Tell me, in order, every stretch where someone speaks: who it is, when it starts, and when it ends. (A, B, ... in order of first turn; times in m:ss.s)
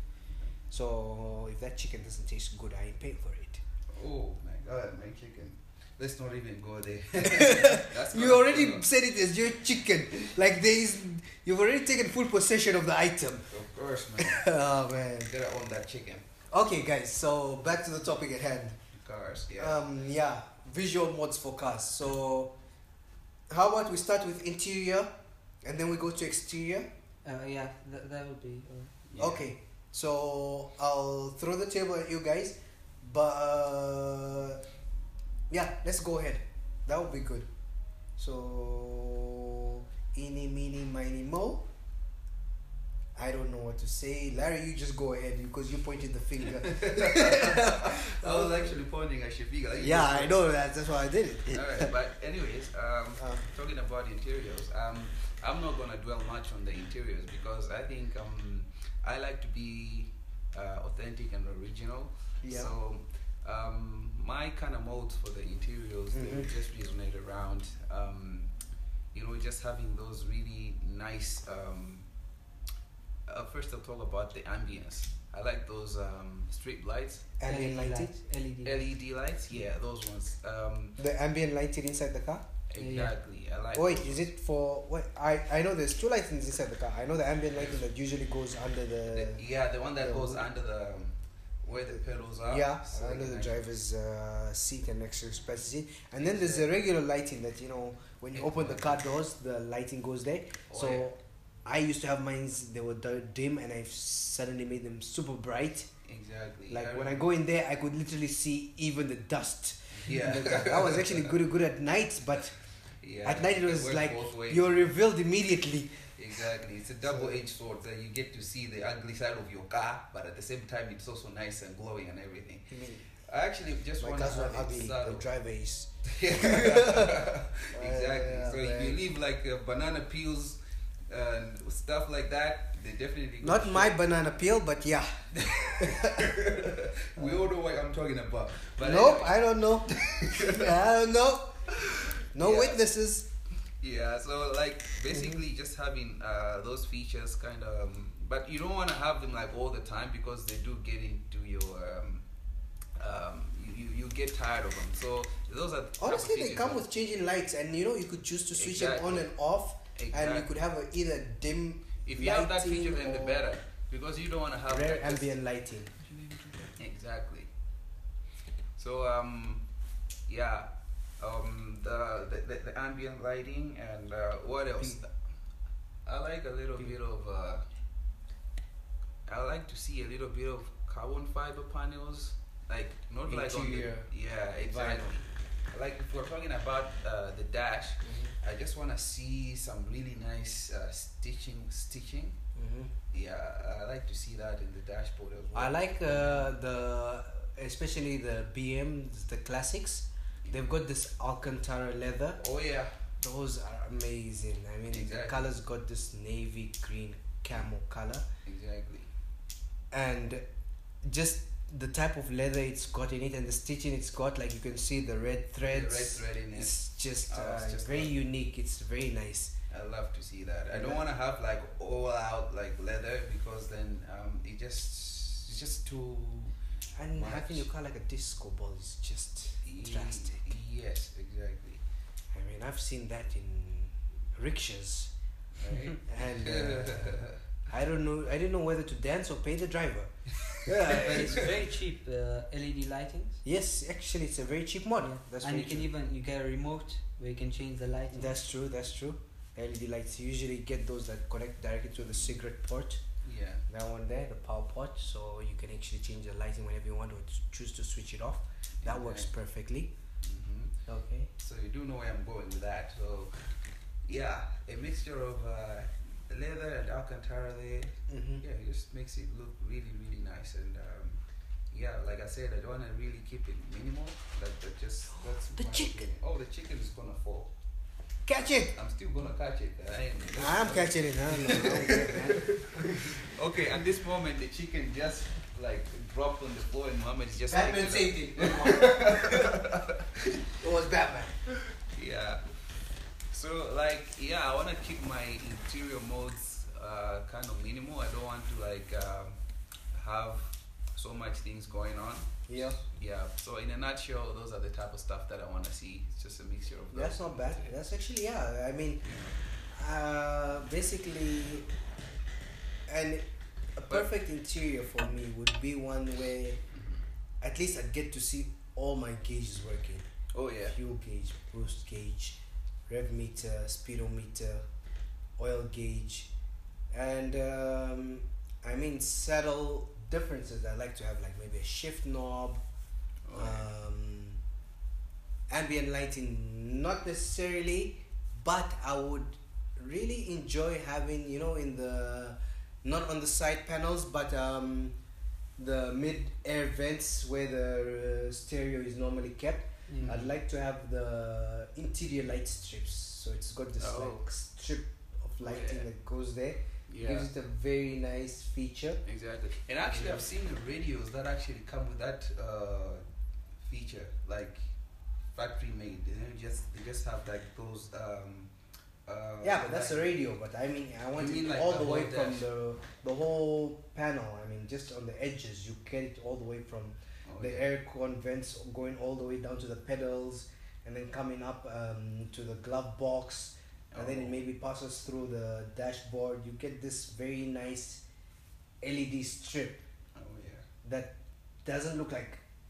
0:00.7-0:03.6 A
0:03.9-0:08.9 B
0:07.2-0:13.6 A
0:13.5-0:14.5 B
0:14.2-0:15.3 A
0:15.3-0:16.2 B
0:16.5-0:18.8 A
0:18.9-0:19.8 B
0:19.6-0:22.5 A
0:23.5-0:25.1 A
0:25.6-0:26.8 A
0:27.2-0:28.9 C
0:29.1-0:29.4 B
0:29.2-0:34.6 A
0:35.5-0:37.5 A
0:38.2-0:41.7 A
0:43.2-0:48.8 A
0:46.5-0:50.4 B
0:49.8-0:51.9 A
0:51.5-1:08.5 B
1:02.4-1:02.7 A
1:06.1-1:06.5 A
1:09.1-1:12.0 B
1:13.3-1:17.3 B
1:17.4-1:18.1 A
1:17.4-1:18.9 C
1:18.6-1:21.0 B
1:21.0-1:22.5 A
1:22.7-1:24.2 B
1:22.8-1:23.1 C
1:23.7-1:29.4 A
1:27.6-1:27.8 B
1:29.1-1:33.6 B
1:30.0-1:30.4 A
1:32.4-1:45.9 A
1:36.2-1:36.7 B
1:38.3-1:39.0 B
1:40.7-1:41.1 B
1:46.0-1:47.3 B
1:46.7-1:52.5 A
1:49.9-1:51.3 B
1:53.0-1:54.9 B
1:53.2-1:56.0 A
1:56.1-2:02.7 B
1:57.0-1:57.4 A
2:02.7-2:03.0 A
2:03.2-2:05.2 B
2:04.0-2:09.0 A
2:06.1-2:10.6 B
2:11.1-2:14.0 B
2:13.4-2:17.4 A
2:15.6-2:20.8 B
2:18.8-2:21.7 A
2:21.7-2:22.8 B
2:22.3-2:23.3 A
2:23.8-2:32.2 B
2:25.1-2:25.4 A
2:33.0-2:36.8 B
2:36.0-2:43.4 A
2:38.5-2:39.3 B
2:40.0-2:40.5 B
2:42.0-2:45.4 B
2:44.7-2:45.9 A
2:46.0-2:47.5 B
2:48.8-2:49.6 B
2:50.3-2:50.7 B
2:51.2-2:55.1 B
2:56.0-2:57.6 B
2:59.2-3:12.4 B
3:03.3-3:04.1 A
3:04.6-3:05.2 A
3:08.0-3:08.3 A
3:12.5-3:12.9 A
3:13.1-3:16.5 B
3:15.5-3:22.4 A
3:22.4-3:22.9 B
3:23.2-3:28.2 A
3:24.9-3:25.5 B
3:28.4-3:29.1 B
3:29.9-3:30.4 A
3:31.0-3:39.5 A
3:35.6-3:36.8 B
3:37.3-3:38.1 B
3:39.7-3:46.6 B
3:40.7-3:41.0 A
3:47.0-3:50.4 A
3:47.1-3:47.6 B
3:49.6-3:51.8 B
3:52.3-3:55.1 A
3:55.6-3:57.4 B
3:56.0-4:01.5 A
4:00.4-4:01.4 B
4:00.7-4:03.4 C
4:03.4-4:05.9 A
4:05.0-4:08.4 C
4:08.1-4:13.0 A
4:13.2-4:13.6 B
4:13.7-4:19.9 A
4:18.8-4:19.3 B
4:20.2-4:20.8 B
4:20.9-4:21.3 A
4:21.4-4:23.5 B
4:24.1-4:37.5 B
4:28.1-4:28.4 A
4:35.5-4:36.0 A
4:38.2-4:38.8 A
4:38.6-4:50.5 B
4:40.3-4:43.2 A
4:47.5-4:49.6 A
4:50.6-4:51.4 A
4:51.8-4:52.4 B
4:53.3-4:59.4 B
4:59.9-5:07.8 B
5:02.5-5:02.8 A
5:06.9-5:09.0 A
5:09.0-5:09.3 B
5:09.7-5:11.7 A
5:12.9-5:16.6 A
5:16.7-5:17.0 B
5:17.4-5:20.1 A
5:20.3-5:20.8 B
5:20.7-5:24.6 A
5:25.4-5:26.3 A
5:26.9-5:32.6 A
5:33.3-5:33.7 B
5:33.3-5:34.4 A
5:35.5-5:44.9 A
5:45.6-5:59.0 A
5:49.9-5:50.2 C
5:53.8-5:54.2 B
5:55.4-5:55.9 B
5:56.9-5:57.3 B
5:59.0-6:03.0 B
5:59.9-6:00.2 A
6:03.6-6:04.7 B
6:05.3-6:08.5 B
6:09.0-6:10.1 B
6:09.4-6:28.0 A
6:11.2-6:12.5 B
6:17.2-6:17.7 B
6:23.9-6:24.4 B
6:28.8-6:29.8 A
6:30.1-6:30.6 B
6:30.8-6:31.1 A
6:31.6-6:32.4 A